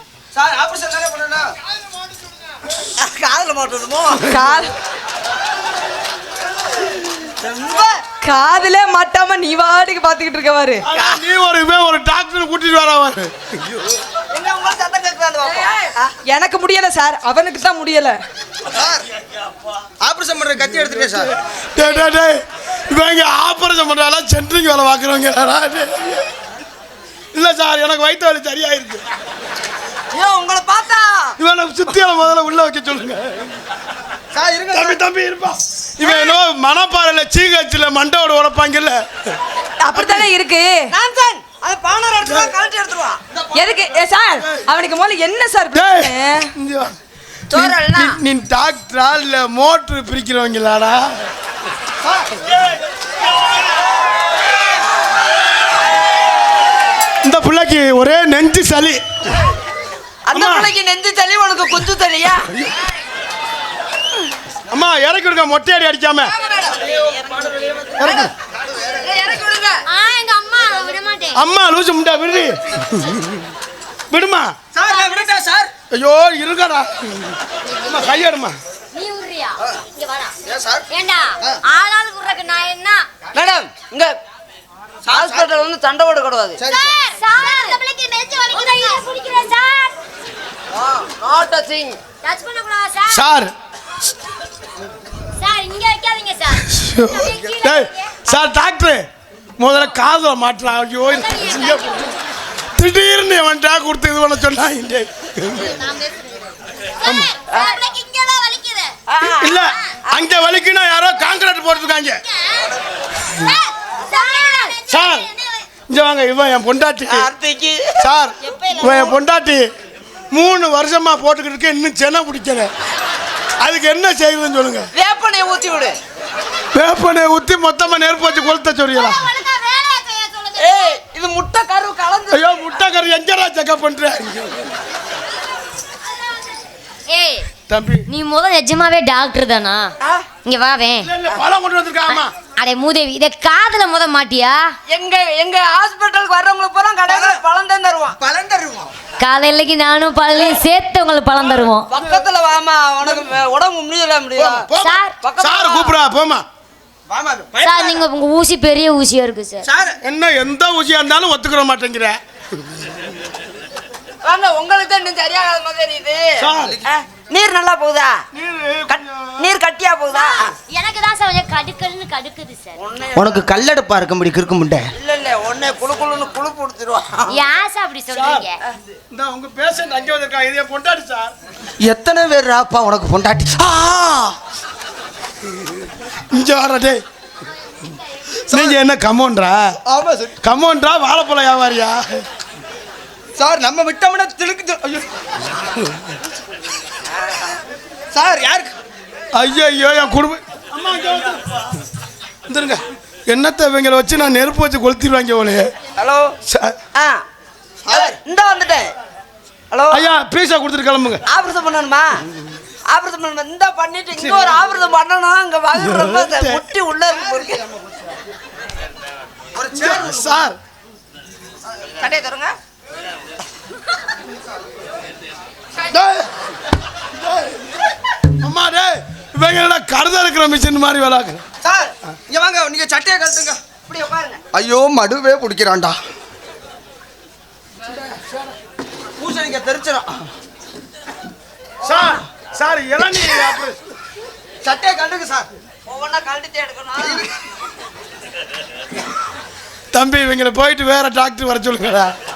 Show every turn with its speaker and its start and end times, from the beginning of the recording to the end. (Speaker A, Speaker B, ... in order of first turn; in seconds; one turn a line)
Speaker A: 0.3-1.5
Speaker B: 3.0-4.4
Speaker C: 4.3-4.7
Speaker B: 7.4-8.0
Speaker C: 8.2-10.9
Speaker D: 10.8-13.3
Speaker B: 10.9-11.2
Speaker B: 14.3-16.1
Speaker C: 15.6-18.2
Speaker A: 18.7-19.0
Speaker A: 20.0-21.3
Speaker D: 21.1-26.3
Speaker D: 27.3-29.0
Speaker B: 30.1-31.3
Speaker D: 31.4-33.5
Speaker A: 34.3-35.0
Speaker D: 34.7-39.0
Speaker C: 39.8-40.9
Speaker B: 40.9-43.2
Speaker C: 43.5-46.5
Speaker D: 45.7-46.9
Speaker B: 47.5-48.2
Speaker D: 47.5-51.1
Speaker D: 57.2-59.0
Speaker B: 60.3-62.5
Speaker D: 60.3-60.7
Speaker D: 64.7-66.3
Speaker B: 66.2-69.8
Speaker D: 68.0-68.3
Speaker E: 69.8-71.4
Speaker D: 71.3-73.3
Speaker D: 74.1-74.5
Speaker B: 74.7-75.7
Speaker E: 74.9-75.2
Speaker D: 75.9-77.3
Speaker D: 77.9-78.5
Speaker E: 78.9-80.3
Speaker A: 80.5-80.9
Speaker E: 80.9-83.0
Speaker B: 83.3-84.1
Speaker A: 85.0-85.5
Speaker B: 85.0-86.6
Speaker A: 86.6-87.0
Speaker E: 86.7-89.9
Speaker B: 90.8-92.0
Speaker E: 92.2-93.2
Speaker D: 93.1-93.5
Speaker E: 95.3-98.3
Speaker D: 96.5-99.0
Speaker D: 99.6-102.1
Speaker E: 101.1-102.1
Speaker D: 102.8-105.8
Speaker E: 105.7-106.4
Speaker E: 107.0-108.9
Speaker D: 107.0-107.3
Speaker B: 109.1-109.6
Speaker D: 109.4-112.2
Speaker E: 113.3-115.6
Speaker D: 114.9-115.3
Speaker D: 115.9-117.3
Speaker B: 117.1-118.1
Speaker D: 118.0-119.7
Speaker E: 118.5-119.1
Speaker D: 120.3-122.7
Speaker D: 123.6-124.9
Speaker B: 124.9-126.0
Speaker D: 126.7-129.3
Speaker E: 129.0-130.9
Speaker B: 130.6-132.5
Speaker D: 132.3-134.6
Speaker E: 137.1-137.5
Speaker D: 137.7-138.1
Speaker E: 138.1-141.1
Speaker D: 141.0-142.3
Speaker E: 142.1-144.7
Speaker B: 144.9-148.2
Speaker A: 147.1-147.4
Speaker A: 148.2-148.9
Speaker E: 149.2-151.9
Speaker B: 151.9-154.7
Speaker D: 154.3-156.4
Speaker E: 154.8-155.1
Speaker B: 155.2-155.9
Speaker A: 157.1-157.7
Speaker E: 157.6-159.7
Speaker B: 159.6-159.9
Speaker D: 160.0-162.2
Speaker B: 164.2-168.2
Speaker D: 166.4-166.8
Speaker D: 168.3-169.5
Speaker B: 168.9-170.5
Speaker E: 170.1-172.8
Speaker B: 172.8-173.5
Speaker A: 173.2-174.8
Speaker B: 175.0-177.4
Speaker E: 177.3-178.6
Speaker D: 178.1-178.4
Speaker D: 179.1-181.3
Speaker A: 181.8-183.9
Speaker D: 183.9-184.3
Speaker D: 186.3-187.0
Speaker D: 188.5-189.8
Speaker A: 189.8-190.4
Speaker D: 190.4-192.2
Speaker A: 193.4-195.1
Speaker A: 198.1-198.7
Speaker D: 199.3-201.4
Speaker D: 202.5-205.7
Speaker B: 206.0-206.3
Speaker D: 206.5-206.8
Speaker B: 206.9-207.2
Speaker A: 207.8-208.2
Speaker B: 207.9-208.9
Speaker B: 209.7-210.1
Speaker D: 209.9-211.2
Speaker B: 211.2-212.2
Speaker B: 212.9-217.7
Speaker D: 214.2-214.6
Speaker D: 215.8-216.6
Speaker A: 219.5-220.0
Speaker D: 219.8-220.6
Speaker B: 222.0-222.5
Speaker A: 225.9-226.2
Speaker D: 228.4-231.4
Speaker B: 231.6-231.9
Speaker A: 232.3-233.6
Speaker B: 233.8-234.4
Speaker A: 234.5-236.0
Speaker A: 239.2-240.2
Speaker D: 241.8-243.8
Speaker A: 244.6-245.5
Speaker B: 245.8-247.2
Speaker A: 247.0-247.3
Speaker D: 249.9-252.1